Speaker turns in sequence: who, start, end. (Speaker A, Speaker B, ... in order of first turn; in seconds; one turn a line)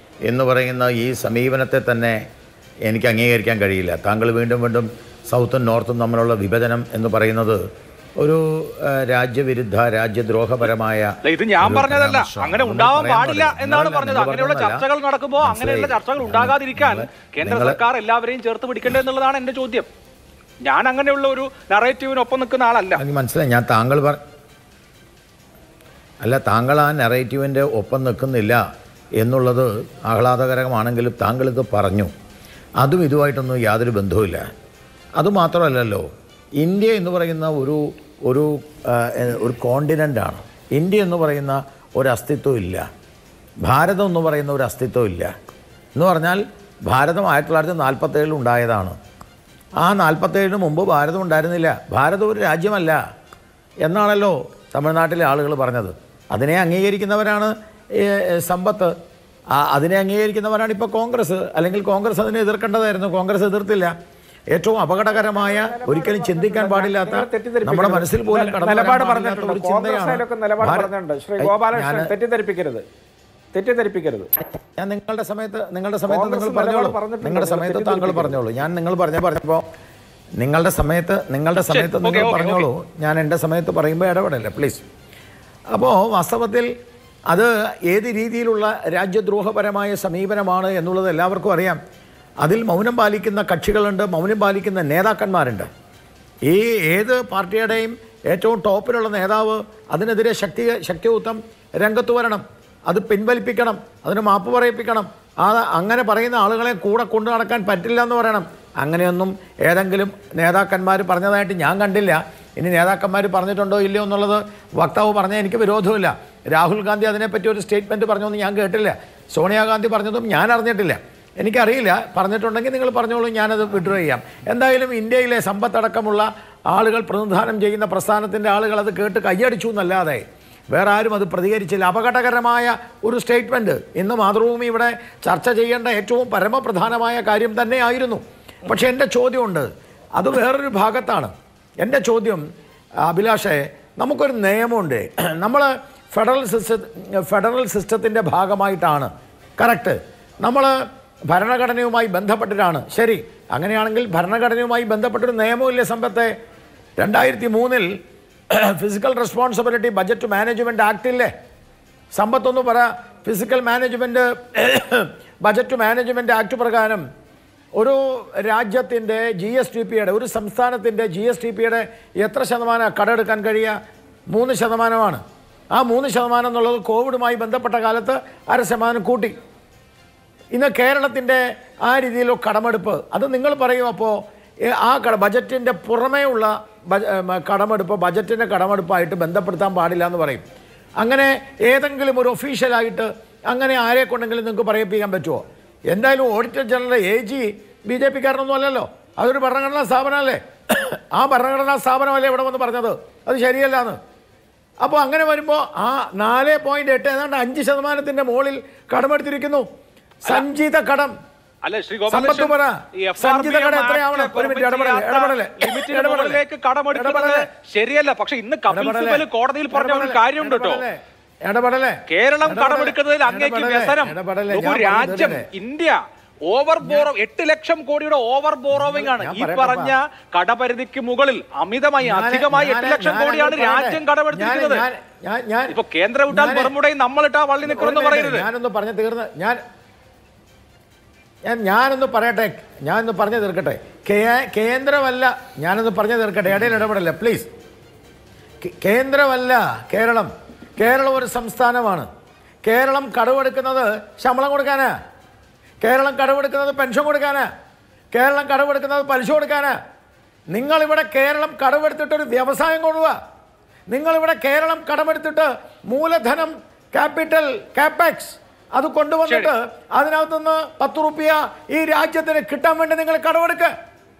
Speaker A: 0.3-2.2
Speaker A: 2.9-7.6
Speaker A: 8.2-14.8
Speaker B: 11.2-19.9
Speaker A: 15.4-17.8
Speaker B: 20.6-23.0
Speaker A: 22.9-24.2
Speaker A: 26.2-28.6
Speaker A: 29.2-32.1
Speaker A: 32.8-34.5
Speaker A: 35.2-36.1
Speaker A: 36.6-42.9
Speaker A: 43.6-45.3
Speaker A: 46.0-49.0
Speaker A: 49.8-53.0
Speaker A: 53.8-58.9
Speaker A: 59.5-63.9
Speaker A: 64.5-72.1
Speaker C: 65.1-72.8
Speaker C: 73.5-74.3
Speaker A: 74.8-79.6
Speaker C: 76.1-78.4
Speaker A: 80.4-84.8
Speaker B: 81.6-82.7
Speaker A: 85.7-86.7
Speaker A: 87.3-91.8
Speaker A: 92.4-95.7
Speaker A: 96.5-142.4
Speaker A: 143.1-150.7
Speaker A: 151.3-156.3
Speaker A: 157.0-157.9
Speaker A: 158.5-161.3
Speaker A: 162.1-167.0
Speaker A: 167.8-173.7
Speaker A: 174.3-175.2
Speaker A: 175.8-179.3
Speaker A: 180.5-184.2
Speaker A: 184.7-190.4
Speaker A: 191.0-204.0
Speaker A: 204.8-209.6
Speaker A: 210.2-211.1
Speaker B: 211.6-220.8
Speaker A: 212.1-216.4
Speaker A: 216.9-217.5
Speaker A: 218.7-225.5
Speaker B: 222.1-234.8
Speaker A: 226.8-227.1
Speaker A: 228.7-229.9
Speaker A: 232.0-235.8
Speaker B: 235.7-238.5
Speaker A: 236.3-236.7
Speaker A: 237.6-239.6
Speaker A: 241.4-247.5
Speaker A: 248.6-252.1
Speaker A: 252.6-254.9
Speaker A: 255.8-257.5
Speaker A: 258.1-259.8
Speaker A: 260.5-263.1
Speaker A: 263.9-273.7
Speaker B: 269.3-269.5